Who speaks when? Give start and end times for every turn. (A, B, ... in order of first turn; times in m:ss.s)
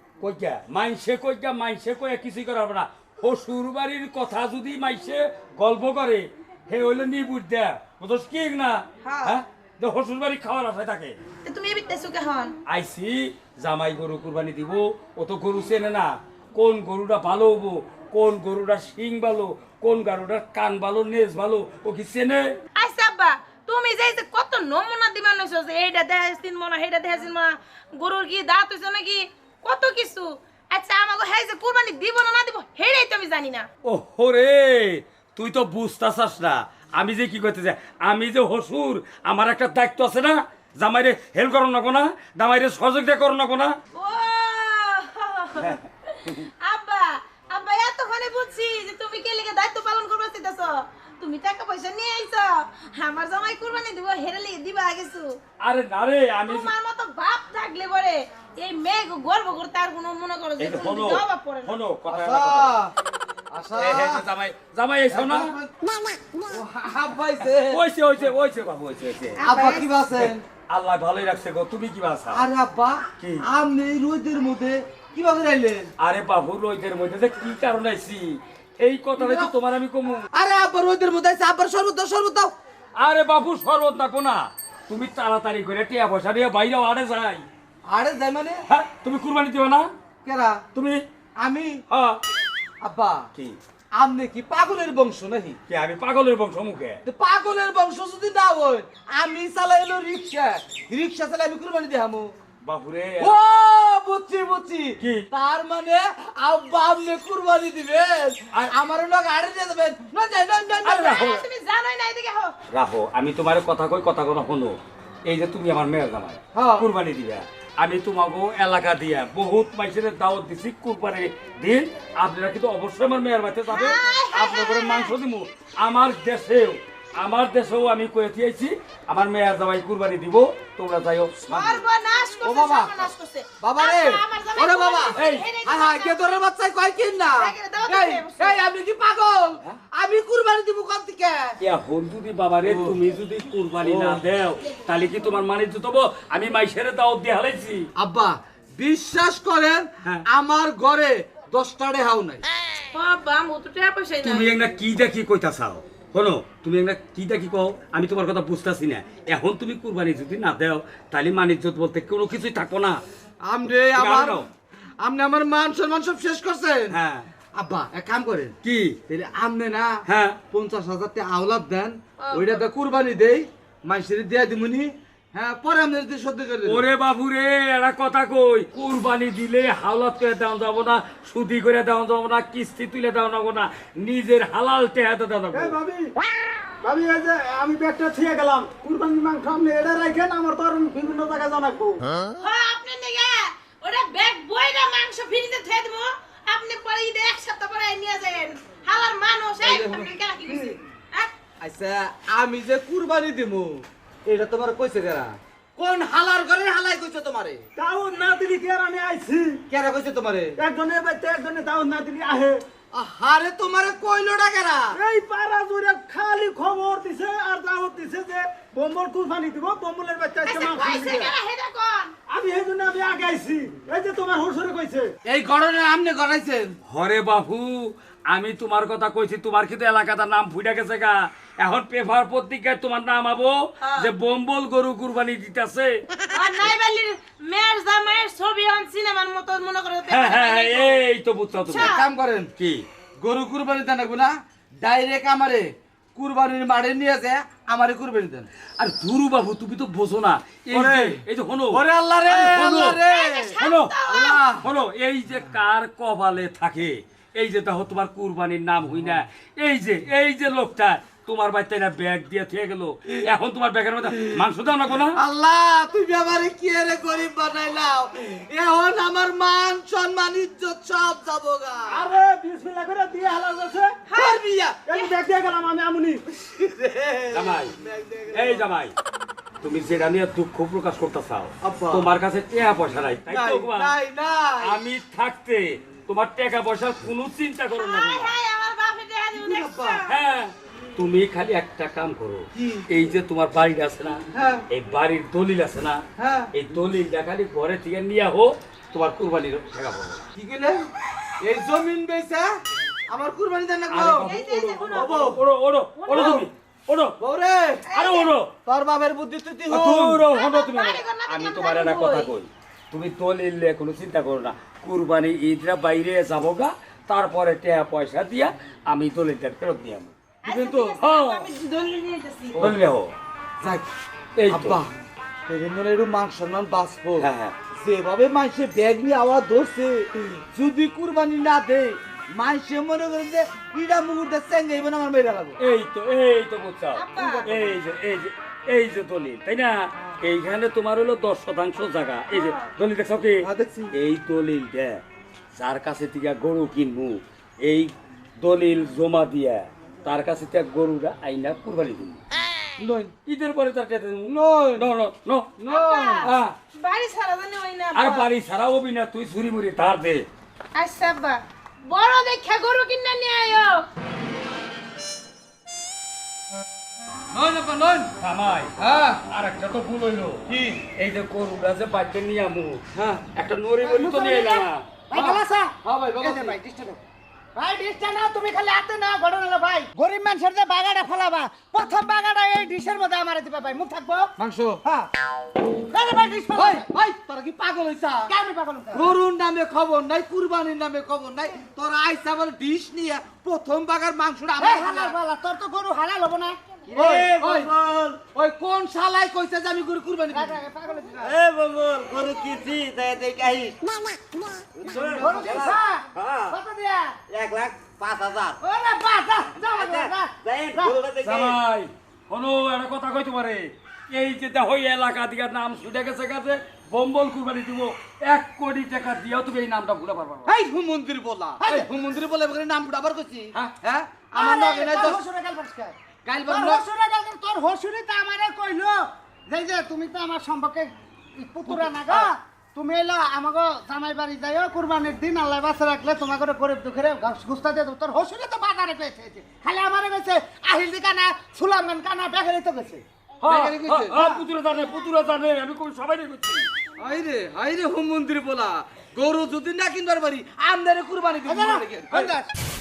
0:00.2-0:11.2 A
0:09.0-0:09.4 B
0:11.4-0:12.5 B
0:12.7-0:22.5 A
0:22.8-0:33.6 B
0:33.8-0:43.8 A
0:43.9-0:55.3 B
0:45.6-0:46.5 A
0:55.6-0:56.7 A
0:56.4-1:01.8 B
1:00.6-1:02.7 A
1:02.0-1:02.9 C
1:03.5-1:04.2 C
1:03.8-1:05.5 A
1:05.1-1:05.7 C
1:06.5-1:07.8 C
1:07.7-1:09.4 A
1:09.4-1:09.9 B
1:09.4-1:10.4 C
1:10.1-1:12.4 A
1:12.3-1:15.9 C
1:13.2-1:13.4 A
1:16.0-1:20.2 A
1:19.2-1:19.5 C
1:20.3-1:22.5 C
1:23.0-1:27.5 A
1:27.9-1:28.6 C
1:28.7-1:29.9 A
1:30.2-1:30.6 C
1:30.7-1:31.0 A
1:31.4-1:31.8 C
1:31.9-1:32.2 A
1:32.8-1:33.2 C
1:34.0-1:35.6 C
1:35.7-1:37.0 A
1:37.0-1:42.3 C
1:42.6-1:43.3 A
1:43.2-1:50.9 C
1:45.0-1:45.2 A
1:50.8-1:52.5 B
1:50.8-1:51.4 A
1:52.7-2:11.8 A
1:56.5-1:56.9 C
2:03.7-2:05.1 B
2:11.5-2:16.4 B
2:12.4-2:21.6 C
2:15.1-2:15.4 A
2:17.3-2:18.6 B
2:21.6-2:27.9 A
2:22.6-2:23.0 C
2:23.8-2:24.2 C
2:28.0-2:32.4 C
2:32.9-2:34.6 B
2:34.2-2:43.0 A
2:43.4-2:44.4 C
2:43.8-2:44.5 A
2:45.0-2:46.9 C
2:46.9-2:47.3 A
2:47.5-2:48.5 C
2:48.6-2:49.0 A
2:49.1-2:56.8 C
2:50.0-2:50.4 A
2:52.2-2:52.6 B
2:56.6-3:05.8 A
3:05.5-3:06.0 D
3:06.8-3:12.0 D
3:12.4-3:21.3 B
3:19.6-3:20.7 C
3:21.6-3:27.6 C
3:27.8-3:29.5 D
3:29.7-3:30.6 C
3:30.6-3:32.6 D
3:32.9-3:35.0 C
3:35.0-3:41.3 D
3:40.4-3:42.1 B
3:42.3-3:45.1 D
3:45.2-3:46.7 C
3:46.9-3:56.0 A
3:53.8-3:54.1 B
3:56.3-4:01.0 B
4:00.1-4:02.0 A
4:01.7-4:02.1 B
4:01.8-4:02.5 C
4:02.6-4:02.8 A
4:03.2-4:08.5 C
4:08.8-4:13.0 A
4:10.7-4:11.2 C
4:11.7-4:14.7 C
4:12.3-4:14.4 B
4:13.6-4:14.0 A
4:14.6-4:25.2 A
4:24.9-4:32.1 C
4:31.9-4:33.9 D
4:34.1-4:35.2 B
4:34.1-4:35.1 C
4:35.4-4:36.0 D
4:36.3-4:38.6 C
4:37.3-4:37.7 A
4:38.3-4:38.9 A
4:39.6-4:43.9 A
4:41.6-4:42.1 C
4:43.3-4:44.8 C
4:44.6-4:48.4 A
4:47.7-4:50.1 B
4:49.3-4:50.0 C
4:50.0-4:56.0 A
4:52.5-4:52.8 C
4:54.3-4:54.6 C
4:56.2-4:56.5 C
4:56.5-5:00.2 A
5:00.4-5:00.8 C
5:01.4-5:02.5 C
5:03.1-5:05.4 C
5:03.9-5:07.1 A
5:04.2-5:05.2 B
5:06.0-5:06.3 B
5:06.1-5:06.4 C
5:07.2-5:07.8 C
5:07.9-5:08.3 B
5:07.9-5:08.5 A
5:08.6-5:10.2 C
5:09.7-5:20.1 A
5:10.3-5:12.3 B
5:20.4-5:22.6 B
5:20.5-5:21.1 C
5:21.0-5:21.5 A
5:22.6-5:23.1 A
5:23.6-5:23.9 C
5:24.4-5:24.8 A
5:24.5-5:24.9 C
5:25.5-5:35.6 C
5:27.2-5:27.5 A
5:35.6-5:45.0 A
5:36.9-5:37.5 B
5:37.1-5:37.8 C
5:42.3-5:42.7 B
5:43.4-5:43.9 C
5:45.5-5:52.2 A
5:52.8-5:53.1 C
5:53.2-5:55.5 A
5:54.3-5:54.9 C
5:55.6-5:56.3 C
5:55.7-5:58.3 B
5:56.2-5:56.5 A
5:57.9-6:00.2 A
6:00.8-6:03.8 B
6:07.3-6:08.1 C
6:08.2-6:10.4 A
6:08.8-6:09.2 C
6:10.5-6:10.8 C
6:10.9-6:12.8 A
6:12.9-6:13.2 C
6:13.3-6:15.0 A
6:13.8-6:17.0 D
6:15.2-6:16.6 C
6:17.6-6:24.3 D
6:24.4-6:24.8 C
6:24.8-6:25.1 D
6:25.8-6:26.9 D
6:26.5-6:28.3 C
6:28.3-6:29.1 D
6:28.9-6:35.2 C
6:34.6-6:37.3 D
6:36.9-6:38.2 E
6:37.0-6:37.7 C
6:38.3-6:40.6 C
6:40.3-6:41.4 D
6:41.2-6:43.8 E
6:44.7-6:46.6 E
6:45.0-6:45.7 C
6:45.2-6:47.2 D
6:47.3-6:48.6 E
6:48.6-6:50.9 D
6:49.5-6:51.6 E
6:51.2-7:00.5 A
7:00.4-7:05.2 C
7:01.6-7:01.9 D
7:04.3-7:23.0 D
7:06.2-7:06.8 C
7:11.6-7:12.3 C
7:23.4-7:26.7 A
7:23.4-7:24.2 C
7:24.2-7:24.4 D
7:27.0-7:32.3 C
7:31.4-7:32.4 D